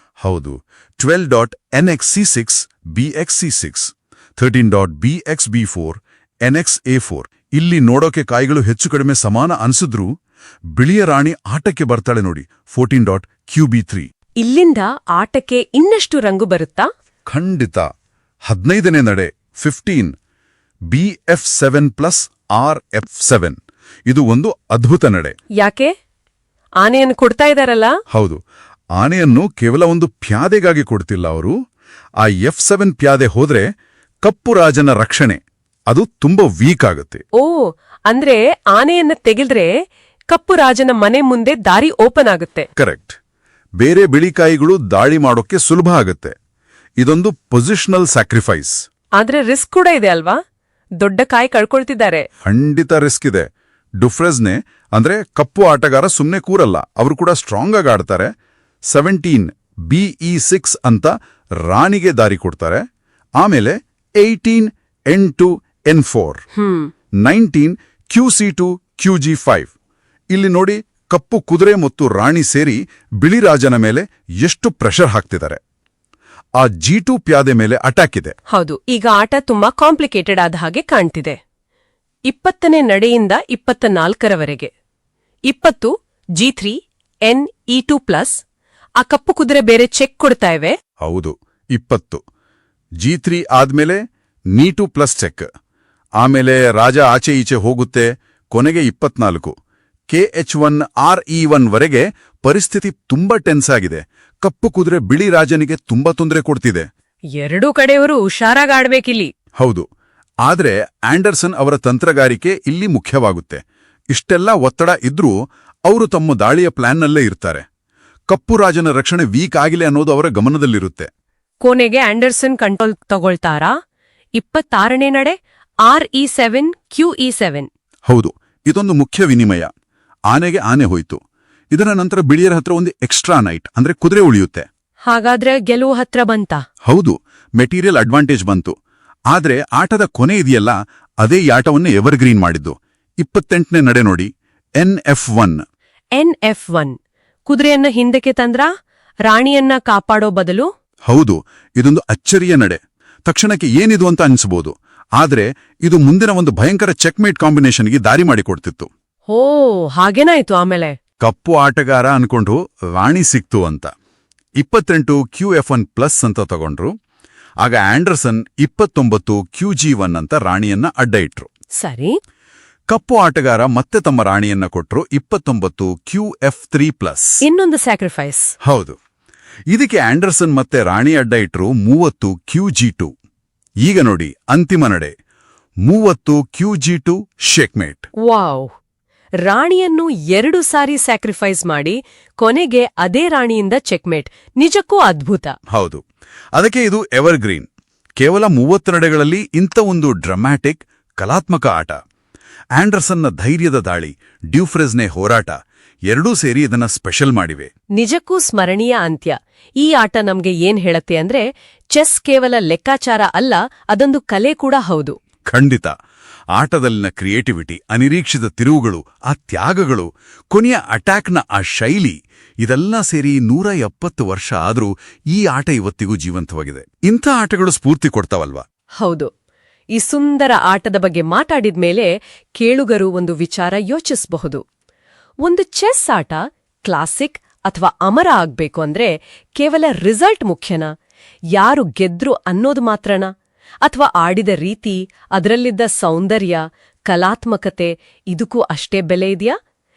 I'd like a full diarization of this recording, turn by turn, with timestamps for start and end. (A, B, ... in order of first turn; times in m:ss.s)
0:00.2-0:10.1 A
0:10.7-0:14.1 A
0:14.4-0:16.9 B
0:17.3-0:17.8 A
0:18.5-0:20.1 A
0:20.9-0:23.6 A
0:24.1-0:25.4 A
0:25.6-0:25.9 B
0:26.8-0:27.9 B
0:28.1-0:28.4 A
0:29.0-0:31.5 A
0:32.2-0:33.7 A
0:34.2-0:37.2 A
0:37.4-0:39.7 B
0:40.3-0:42.7 B
0:42.8-0:43.2 A
0:43.8-0:46.3 A
0:47.0-0:48.8 A
0:49.2-0:50.4 B
0:51.0-0:52.3 B
0:52.4-0:53.4 A
0:54.0-0:58.3 A
0:58.9-1:02.8 A
1:03.4-1:06.4 A
1:06.6-1:06.9 B
1:07.2-1:09.7 A
1:10.3-1:15.6 A
1:16.6-1:18.3 A
1:18.5-1:21.4 B
1:22.3-1:24.7 B
1:25.5-1:28.4 B
1:29.0-1:30.8 B
1:31.0-1:32.2 A
1:33.0-1:34.0 A
1:34.5-1:35.5 A
1:36.2-1:39.5 A
1:40.1-1:46.9 A
1:47.3-1:49.3 B
1:49.6-1:49.8 A
1:50.4-1:55.3 A
1:55.8-1:57.6 A
1:58.3-2:01.1 A
2:01.6-2:03.7 B
2:04.4-2:07.7 B
2:08.1-2:09.7 A
2:10.3-2:11.2 A
2:11.7-2:14.7 A
2:15.1-2:16.6 B
2:16.8-2:18.7 A
2:19.3-2:25.6 A
2:26.2-2:27.0 B
2:27.5-2:28.7 B
2:29.3-2:30.7 B
2:31.1-2:38.9 A
2:39.3-2:41.0 B
2:41.2-2:43.9 A
2:44.6-2:46.9 A
2:47.6-2:51.5 A
2:51.8-2:52.2 B
2:52.9-2:57.4 A
2:57.4-2:58.5 B
2:58.6-2:59.0 A
2:59.7-3:03.1 A
3:03.8-3:05.1 A
3:05.8-3:08.1 A
3:08.2-3:08.7 B
3:09.4-3:15.5 B
3:15.7-3:16.0 A
3:16.5-3:22.0 A
3:22.8-3:25.6 A
3:26.1-3:27.7 A
3:28.0-3:35.2 B
3:35.5-3:35.9 A
3:36.5-3:48.6 A
3:49.0-3:49.3 B
3:49.9-3:54.6 B
3:55.4-4:00.9 B
4:01.6-4:03.3 B
4:03.8-4:09.5 B